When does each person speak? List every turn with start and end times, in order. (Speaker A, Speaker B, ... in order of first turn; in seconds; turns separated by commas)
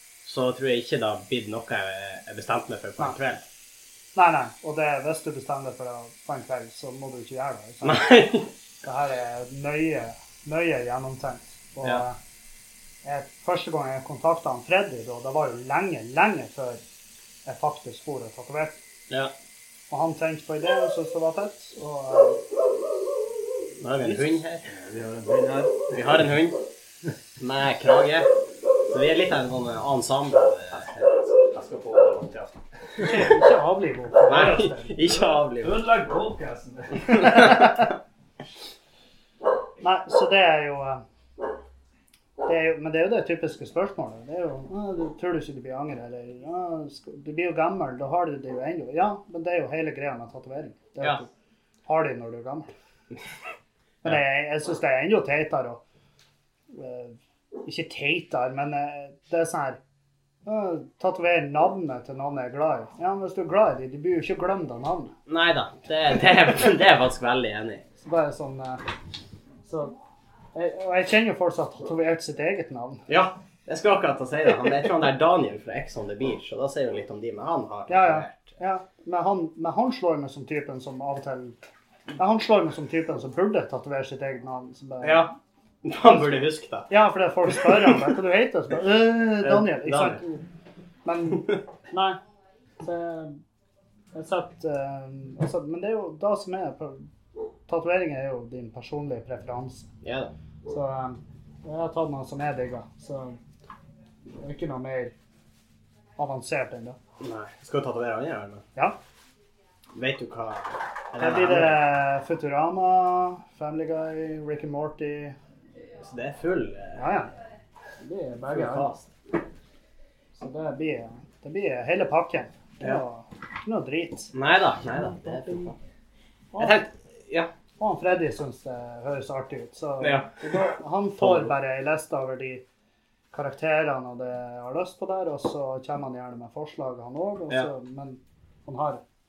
Speaker A: 0.2-3.4, Speaker B: 4.1-8.0, Speaker A: 7.8-8.5, Speaker B: 8.8-12.2, Speaker B: 13.0-16.8, Speaker B: 17.4-18.8, Speaker B: 19.9-22.4, Speaker A: 23.8-24.7, Speaker C: 24.6-26.2, Speaker A: 25.9-26.6, Speaker A: 27.4-28.3, Speaker A: 28.8-31.1, Speaker C: 30.7-33.3, Speaker B: 33.0-35.0, Speaker A: 34.3-35.8, Speaker C: 35.1-37.5, Speaker A: 37.1-37.8, Speaker B: 37.2-37.9, Speaker B: 39.8-41.0, Speaker B: 42.4-51.3, Speaker B: 51.9-52.7, Speaker B: 54.0-55.8, Speaker B: 56.7-59.8, Speaker B: 60.5-65.1, Speaker A: 65.3-67.8, Speaker B: 68.0-68.8, Speaker B: 69.6-69.9, Speaker B: 70.5-73.0, Speaker A: 73.1-78.5, Speaker B: 77.9-81.5, Speaker B: 82.2-85.3, Speaker A: 85.0-85.3, Speaker A: 85.8-86.9, Speaker B: 86.9-90.4, Speaker A: 87.5-88.1, Speaker A: 89.4-90.2, Speaker B: 91.0-92.2, Speaker A: 91.3-91.6, Speaker B: 92.8-93.4, Speaker B: 94.1-97.0, Speaker B: 97.7-99.9, Speaker A: 100.0-100.3, Speaker B: 100.7-103.4, Speaker B: 104.4-105.1, Speaker B: 106.2-107.0, Speaker A: 107.2-108.6, Speaker A: 109.9-111.8, Speaker B: 111.2-115.3, Speaker A: 116.0-117.0, Speaker B: 117.0-117.3, Speaker B: 118.0-118.9, Speaker A: 118.5-119.1, Speaker B: 120.4-124.3, Speaker A: 124.3-125.7, Speaker B: 126.5-126.8, Speaker A: 126.6-127.5, Speaker B: 127.8-132.6, Speaker A: 130.0-130.7, Speaker A: 131.2-131.5, Speaker B: 133.3-139.0